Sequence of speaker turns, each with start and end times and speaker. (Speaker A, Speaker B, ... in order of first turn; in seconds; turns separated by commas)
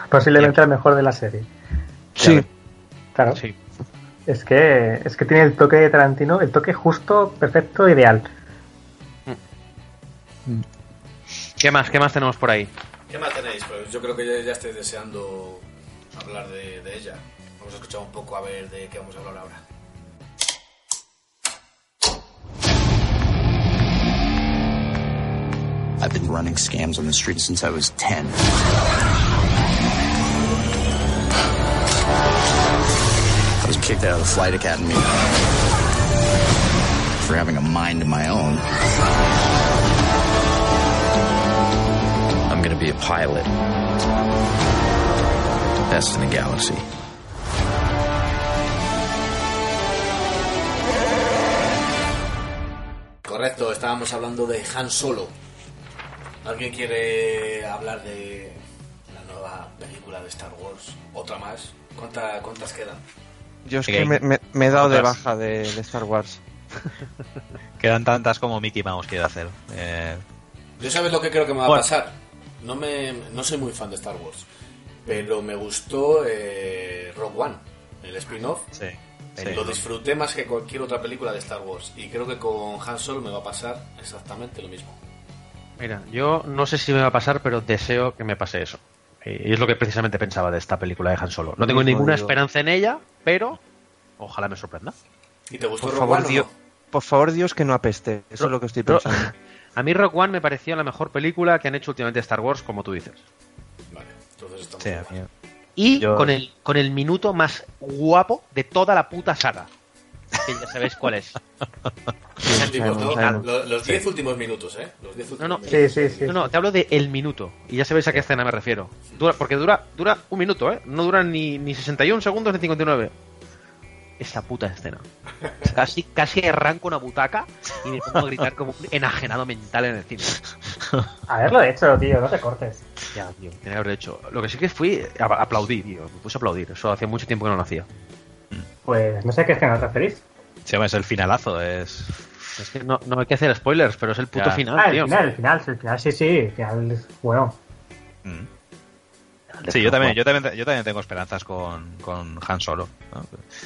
Speaker A: 0.1-1.5, Speaker B: 2.2-2.5, Speaker A: 4.3-8.2, Speaker C: 11.6-12.7, Speaker D: 13.1-19.6, Speaker E: 26.0-28.4, Speaker E: 33.6-35.3, Speaker E: 37.2-38.6, Speaker D: 53.2-55.3, Speaker D: 56.4-63.0, Speaker B: 63.6-66.4, Speaker F: 63.9-64.2, Speaker F: 64.8-65.1, Speaker F: 67.8-70.2, Speaker D: 70.8-74.5, Speaker D: 75.0-78.7, Speaker F: 78.7-79.8, Speaker D: 79.4-85.0, Speaker C: 85.8-93.6, Speaker B: 91.6-92.3, Speaker C: 94.2-94.9, Speaker D: 95.5-96.5, Speaker B: 95.8-99.3, Speaker C: 98.4-99.2, Speaker C: 99.8-103.2, Speaker D: 103.9-105.1, Speaker F: 104.8-105.3, Speaker C: 105.8-109.7, Speaker F: 106.0-106.3, Speaker C: 110.4-111.4, Speaker B: 112.4-113.5, Speaker D: 112.4-116.5, Speaker C: 112.8-113.5, Speaker C: 115.4-123.1, Speaker A: 115.7-116.3, Speaker C: 124.2-125.0, Speaker C: 125.6-130.4, Speaker A: 131.3-132.8, Speaker C: 133.1-137.9, Speaker A: 138.8-140.2, Speaker F: 140.7-142.2, Speaker C: 142.6-145.3, Speaker F: 144.3-144.6, Speaker A: 144.8-147.6, Speaker C: 149.6-150.2, Speaker F: 149.7-153.5